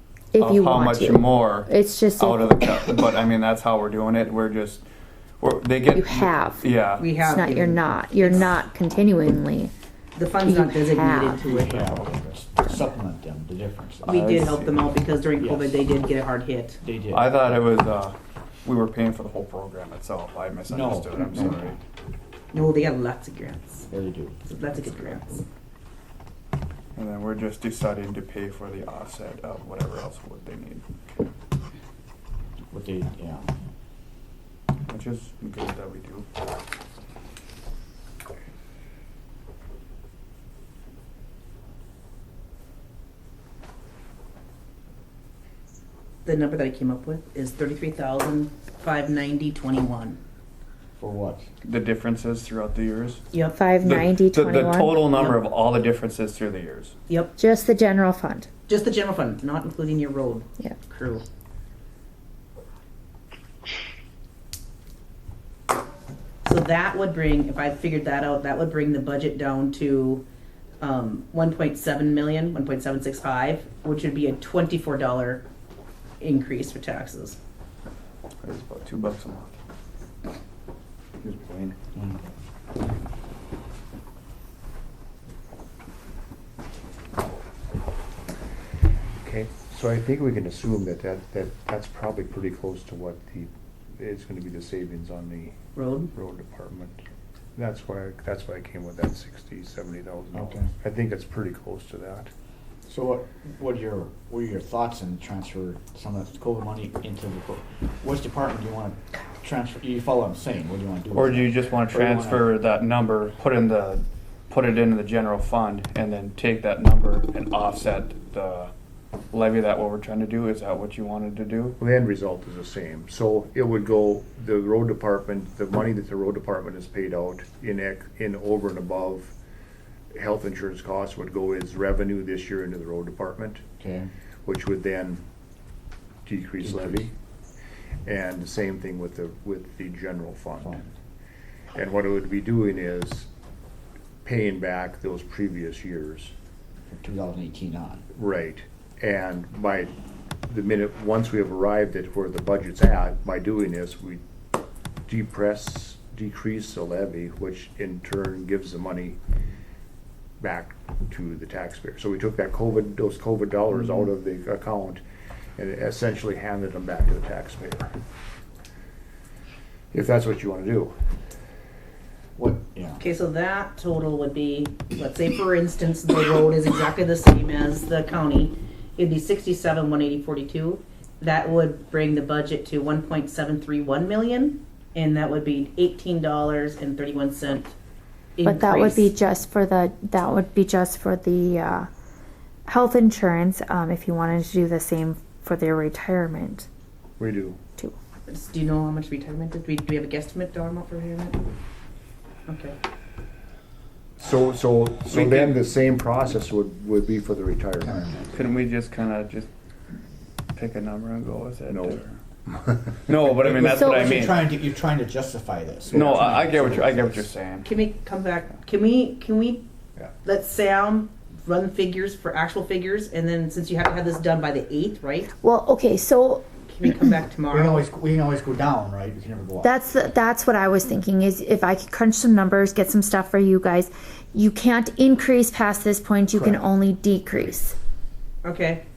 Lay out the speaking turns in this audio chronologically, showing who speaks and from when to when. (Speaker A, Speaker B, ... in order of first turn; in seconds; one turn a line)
Speaker A: 0.3-3.0
Speaker B: 0.4-4.8
Speaker B: 5.4-7.1
Speaker A: 5.9-6.6
Speaker C: 7.0-8.6
Speaker A: 7.2-9.7
Speaker C: 10.2-12.1
Speaker A: 10.4-11.4
Speaker D: 11.4-14.8
Speaker B: 14.0-14.6
Speaker C: 14.1-16.8
Speaker D: 15.4-15.8
Speaker D: 16.8-17.4
Speaker B: 17.1-21.8
Speaker D: 20.7-21.8
Speaker C: 22.5-23.9
Speaker D: 23.9-24.5
Speaker C: 24.5-25.4
Speaker B: 26.9-30.9
Speaker D: 32.7-33.5
Speaker B: 34.9-36.3
Speaker C: 46.2-50.2
Speaker D: 51.0-51.5
Speaker B: 51.6-53.2
Speaker C: 53.3-53.6
Speaker A: 53.5-55.1
Speaker B: 53.8-57.0
Speaker C: 55.1-55.4
Speaker C: 57.1-57.4
Speaker A: 57.4-58.5
Speaker C: 58.7-61.2
Speaker C: 66.5-70.3
Speaker C: 70.8-75.5
Speaker C: 76.2-77.4
Speaker B: 78.4-79.5
Speaker E: 81.2-81.8
Speaker E: 89.2-95.6
Speaker C: 95.8-96.1
Speaker E: 96.1-97.0
Speaker E: 97.6-102.3
Speaker D: 100.3-100.7
Speaker D: 102.9-112.5
Speaker B: 111.2-118.7
Speaker B: 119.3-121.8
Speaker E: 121.8-129.3
Speaker E: 130.1-133.7
Speaker D: 133.8-134.1
Speaker E: 134.5-135.2
Speaker E: 136.3-137.1
Speaker D: 136.6-137.1
Speaker E: 138.1-140.8
Speaker D: 140.6-140.9
Speaker E: 141.7-143.3
Speaker E: 144.2-146.3
Speaker D: 146.9-148.0
Speaker E: 148.1-149.9
Speaker E: 150.5-154.2
Speaker E: 155.1-159.2
Speaker E: 160.4-165.0
Speaker E: 165.6-167.9
Speaker E: 169.9-170.9
Speaker D: 172.4-173.0
Speaker C: 173.0-187.7
Speaker C: 188.4-189.1
Speaker A: 188.4-191.9
Speaker A: 192.7-196.7
Speaker E: 197.2-197.6
Speaker C: 198.3-201.4
Speaker C: 202.5-202.8
Speaker E: 204.2-208.0
Speaker B: 205.1-205.6
Speaker D: 207.8-208.5
Speaker B: 208.3-209.5
Speaker B: 210.6-212.2
Speaker E: 211.7-212.0
Speaker B: 213.1-214.4
Speaker D: 213.4-217.3
Speaker A: 213.8-214.1
Speaker B: 215.9-217.7
Speaker E: 215.9-216.4
Speaker C: 217.6-219.7
Speaker C: 220.2-225.3
Speaker A: 225.4-226.5
Speaker C: 226.7-227.9
Speaker D: 227.5-229.7
Speaker A: 229.6-237.8
Speaker C: 238.4-238.8